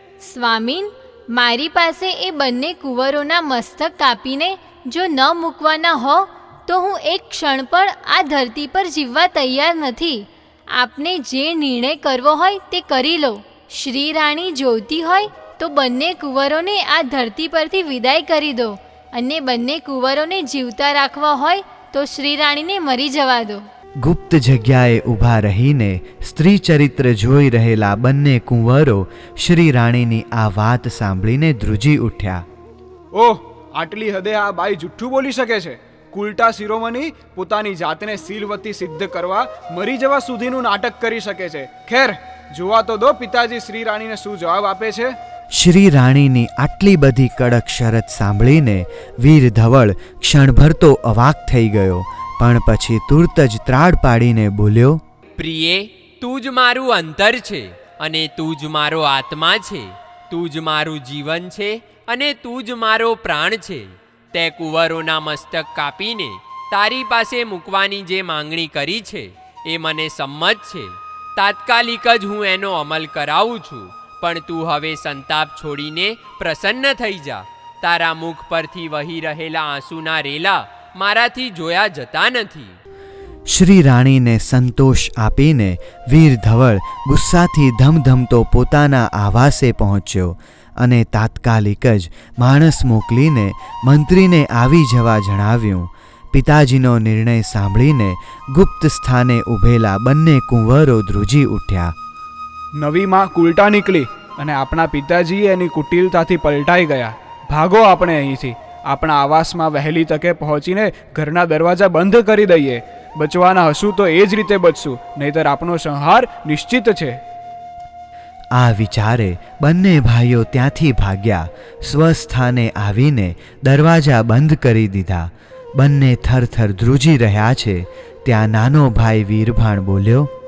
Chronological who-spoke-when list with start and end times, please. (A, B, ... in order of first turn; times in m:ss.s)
0:00.2-0:23.6 A
0:24.0-0:32.4 B
0:33.1-0:45.2 C
0:45.5-0:55.0 B
0:55.4-1:22.8 D
1:23.5-1:41.9 B
1:42.7-1:57.2 C
1:58.5-2:10.3 B